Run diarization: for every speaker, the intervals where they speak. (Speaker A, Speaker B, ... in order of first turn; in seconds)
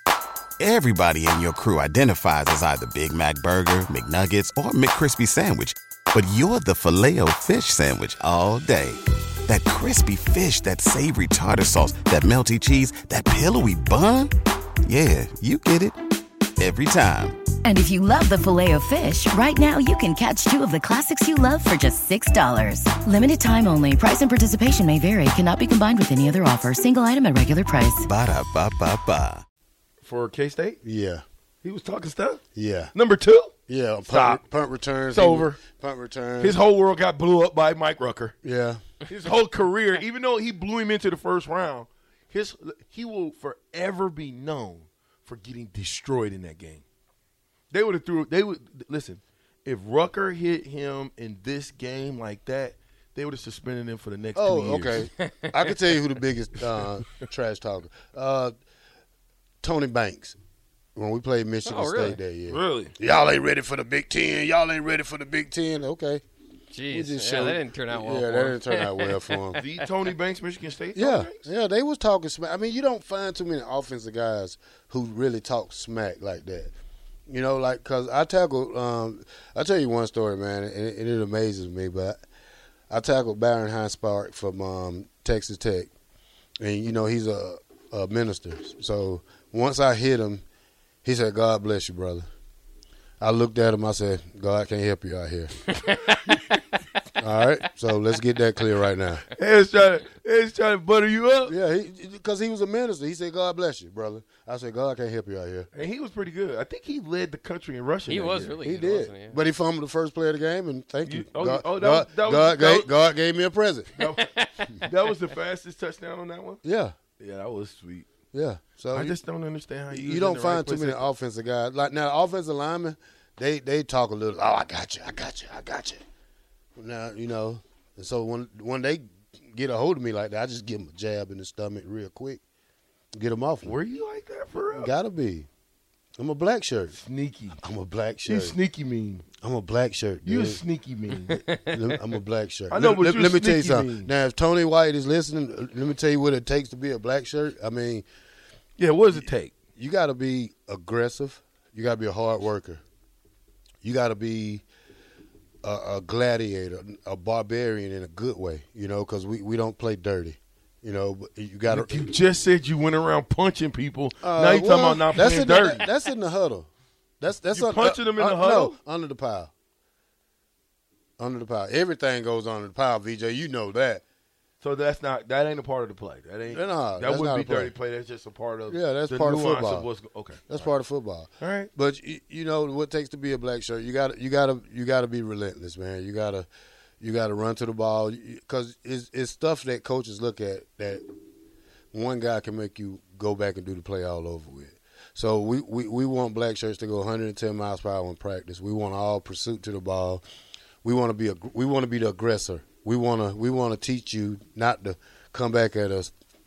Speaker A: 0.6-14.3, 14.9-16.0, 16.6-17.4, 28.1-29.4
Speaker B: 17.6-28.1
Speaker C: 30.0-30.8, 31.6-32.4, 32.9-33.5, 34.1-34.4, 35.1-35.6, 36.4-38.4, 39.1-46.8, 47.7-55.1, 62.5-62.9, 69.6-71.5, 95.7-96.6, 99.4-101.5, 105.7-108.6, 111.0-112.9, 114.0-116.6, 117.2-118.1, 118.9-121.1, 133.6-134.9, 136.9-137.6, 138.2-139.2, 140.3-141.4, 142.7-144.1, 148.8-149.5, 161.7-165.8, 167.5-168.8, 174.6-180.7, 181.4-181.7
Speaker D: 30.8-31.2, 32.5-32.9, 33.7-36.6, 38.4-38.8, 54.4-58.5, 59.6-60.4, 61.0-66.2, 66.9-69.6, 71.0-76.7, 77.3-82.2, 82.9-85.9, 86.6-90.4, 91.0-92.3, 93.2-95.6, 97.2-99.3, 101.5-105.7, 108.6-113.9, 116.6-117.0, 118.3-119.2, 119.9-126.0, 126.8-132.4, 133.1-133.8, 134.8-135.5, 136.2-137.0, 137.6-138.6, 139.4-140.6, 141.6-148.1, 149.8-152.8, 153.8-154.7, 155.6-162.0, 164.2-166.7, 167.2-169.5, 171.2-174.0, 176.5-177.7, 178.7-179.9, 180.5-186.5, 187.0-191.0, 191.9-200.2, 200.8-206.1
Speaker E: 61.6-62.2, 66.7-68.7, 108.1-109.4